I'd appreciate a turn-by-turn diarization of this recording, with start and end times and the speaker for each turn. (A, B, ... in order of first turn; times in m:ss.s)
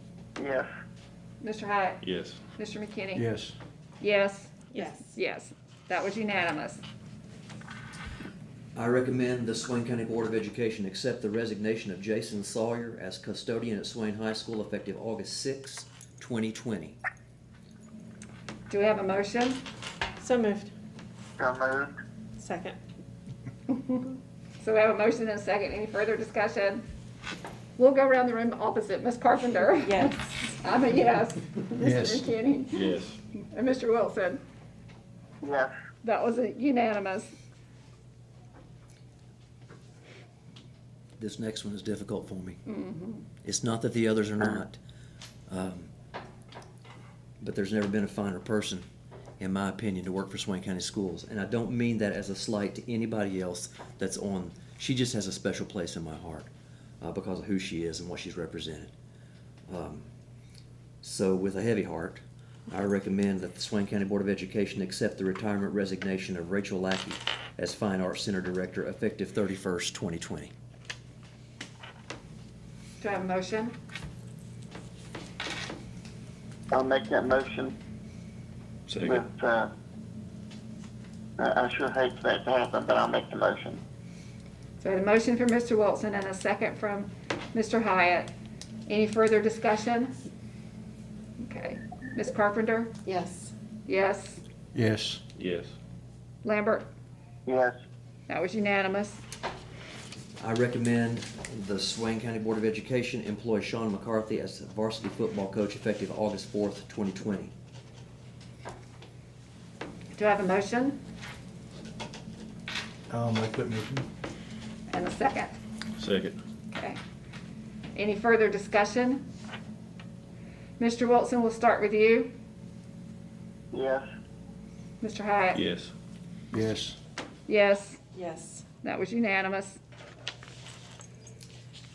0:00.4-0:00.7 A
0:01.4-0:02.0 B
0:02.0-0:02.4 C
0:02.5-0:03.3 B
0:03.1-0:03.6 D
0:04.0-0:06.8 B
0:04.7-0:05.1 E
0:08.7-0:17.0 F
0:18.7-0:19.6 B
0:20.2-0:20.7 E
0:21.4-0:21.9 A
0:22.4-0:22.8 E
0:23.7-0:24.1 B
0:24.6-0:26.8 B
0:27.8-0:34.4 B
0:29.7-0:30.3 E
0:31.8-0:32.3 D
0:32.7-0:33.2 C
0:35.4-0:35.7 A
0:36.0-0:37.3 B
0:41.2-0:42.6 F
0:42.7-0:43.2 B
0:43.4-0:44.8 F
0:45.5-0:45.9 F
0:47.4-0:48.8 F
0:49.4-0:56.5 F
0:57.0-0:58.9 F
0:59.7-1:00.1 F
1:01.0-1:10.5 F
1:13.0-1:13.7 B
1:16.7-1:17.7 A
1:18.9-1:19.2 C
1:19.0-1:19.7 A
1:21.4-1:23.8 A
1:24.8-1:28.3 B
1:28.9-1:30.2 B
1:31.4-1:32.9 B
1:33.0-1:33.5 E
1:33.8-1:34.4 B
1:34.7-1:35.2 D
1:35.4-1:35.7 C
1:36.4-1:36.9 B
1:37.5-1:37.8 A
1:38.3-1:39.2 B
1:40.4-1:47.5 F
1:50.1-1:51.0 B
1:53.1-1:54.0 D
1:54.9-1:55.5 B
1:56.0-1:56.4 C
1:56.7-1:57.0 B
1:57.9-1:59.2 B
2:00.8-2:02.3 B
2:03.7-2:04.0 A
2:05.0-2:05.6 B
2:05.5-2:05.9 C
2:06.5-2:07.0 D
2:07.5-2:08.0 B
2:08.1-2:08.6 E
2:08.8-2:09.8 B